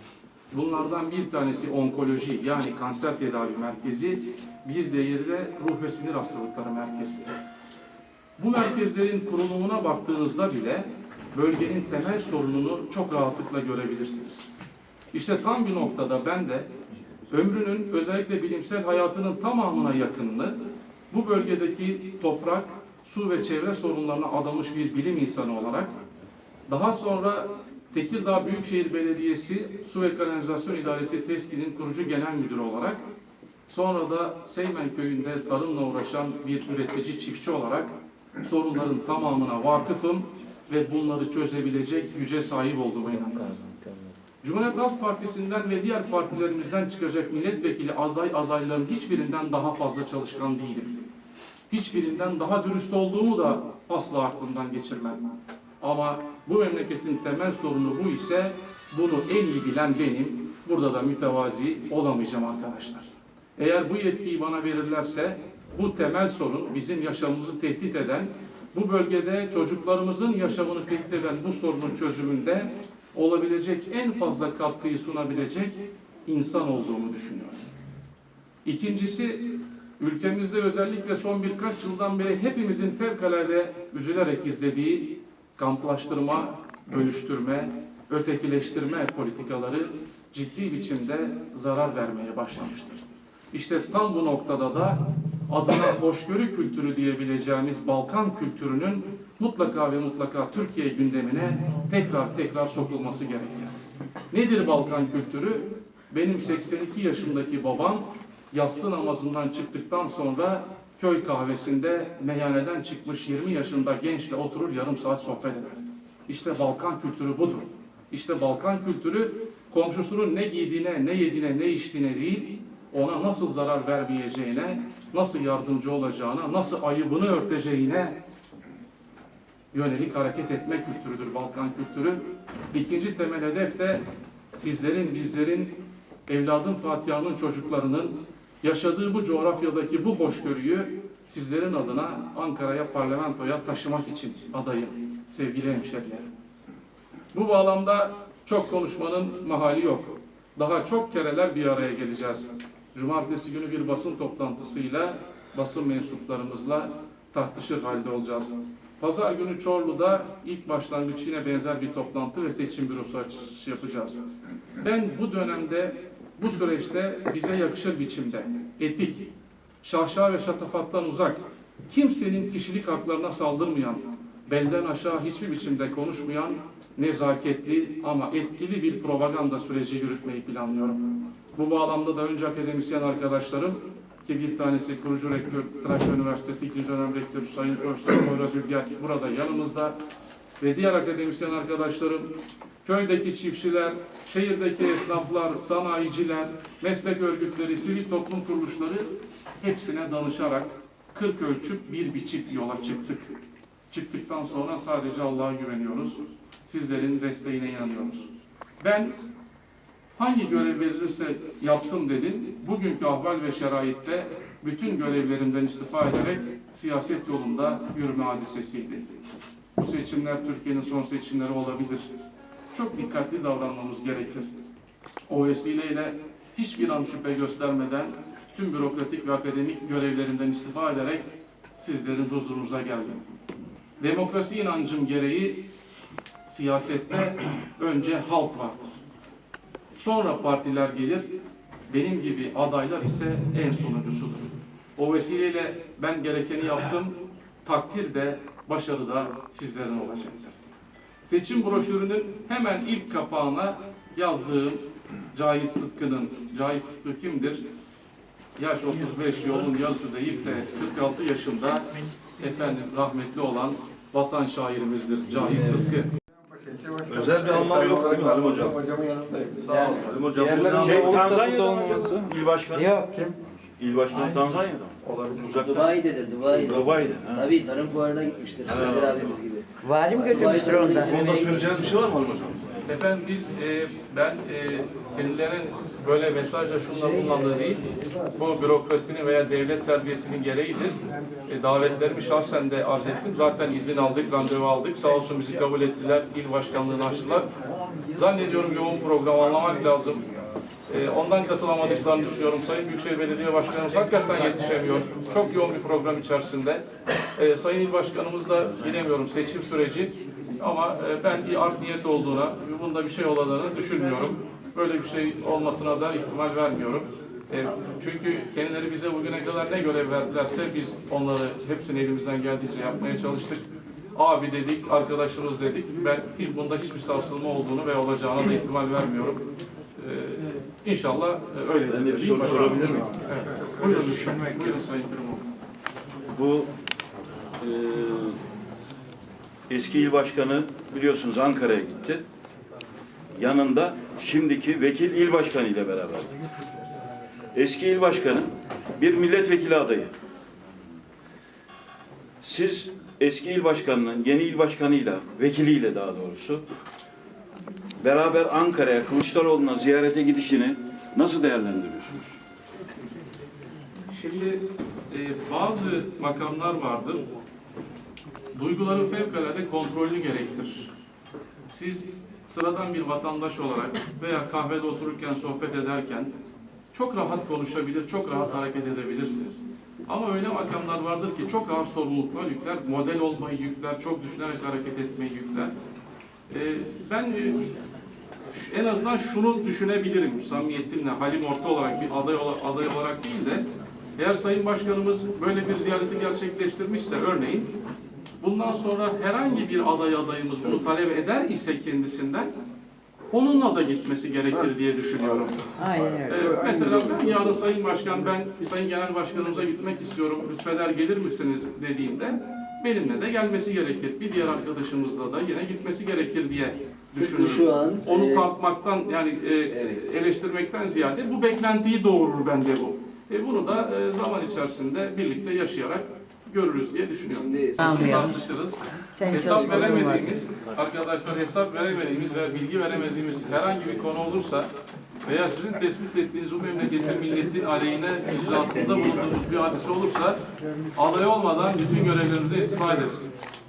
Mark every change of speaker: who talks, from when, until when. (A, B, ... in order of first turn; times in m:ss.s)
0:00.5-0:07.3 A
0:08.4-0:14.5 A
0:15.1-0:16.7 A
0:17.3-0:20.6 A
0:21.1-0:25.9 A
0:26.7-0:33.0 A
0:33.7-0:37.9 A
0:38.4-0:43.5 A
0:43.2-0:44.1 B
0:44.4-0:51.0 A
0:51.7-0:55.3 A
0:55.8-1:17.7 A
1:18.6-1:43.7 A
1:44.3-2:08.2 A
2:09.7-2:26.3 A
2:27.3-2:44.2 A
2:44.8-2:49.3 A
2:49.8-3:09.9 A
3:10.6-3:12.3 A
3:12.8-3:23.3 A
3:23.9-3:28.3 A
3:28.8-3:29.2 A
3:30.2-3:39.2 A
3:39.8-3:42.1 A
3:42.7-3:44.5 A
3:45.3-3:53.4 A
3:54.0-3:55.7 A
3:56.5-3:58.8 A
4:00.0-4:01.3 A
4:01.9-4:10.6 A
4:11.2-4:17.6 A
4:18.6-4:26.1 A
4:26.5-4:31.3 C
4:27.1-4:28.8 D
4:29.6-4:30.8 A
4:29.8-4:33.1 B
4:30.8-4:33.0 D
4:31.9-4:32.2 C
4:33.1-4:33.4 C
4:33.8-4:36.0 D
4:35.0-4:35.6 C
4:35.6-4:41.8 E
4:36.6-4:37.5 D
4:38.6-4:39.3 D
4:39.8-4:41.2 B
4:41.0-4:42.7 D
4:42.9-4:47.8 A
4:46.9-4:48.3 E
4:48.4-4:57.5 A
4:58.1-5:00.3 A
5:00.9-5:29.4 A
5:30.0-5:35.5 A
5:31.8-5:33.1 D
5:33.8-5:34.6 C
5:36.3-5:36.7 D
5:37.6-5:38.4 D
5:39.7-5:42.2 D
5:43.3-5:46.3 D
5:47.5-5:50.1 D
5:52.4-5:56.6 D
5:58.0-6:02.3 D
6:04.1-6:07.2 A
6:08.5-6:10.9 A
6:11.7-6:16.3 A
6:16.9-6:25.7 A
6:26.5-6:27.7 A
6:28.5-6:33.6 A
6:34.2-6:37.7 A
6:38.4-6:42.5 A
6:43.3-6:45.7 A
6:45.8-6:46.6 B
6:46.2-7:14.7 A
6:46.4-6:46.9 E
6:57.2-6:58.4 E
6:59.7-7:00.0 E
7:07.4-7:08.0 E
7:07.8-7:08.3 B
7:09.1-7:10.2 B
7:09.4-7:10.2 E
7:15.2-7:20.4 A
7:20.9-7:23.3 A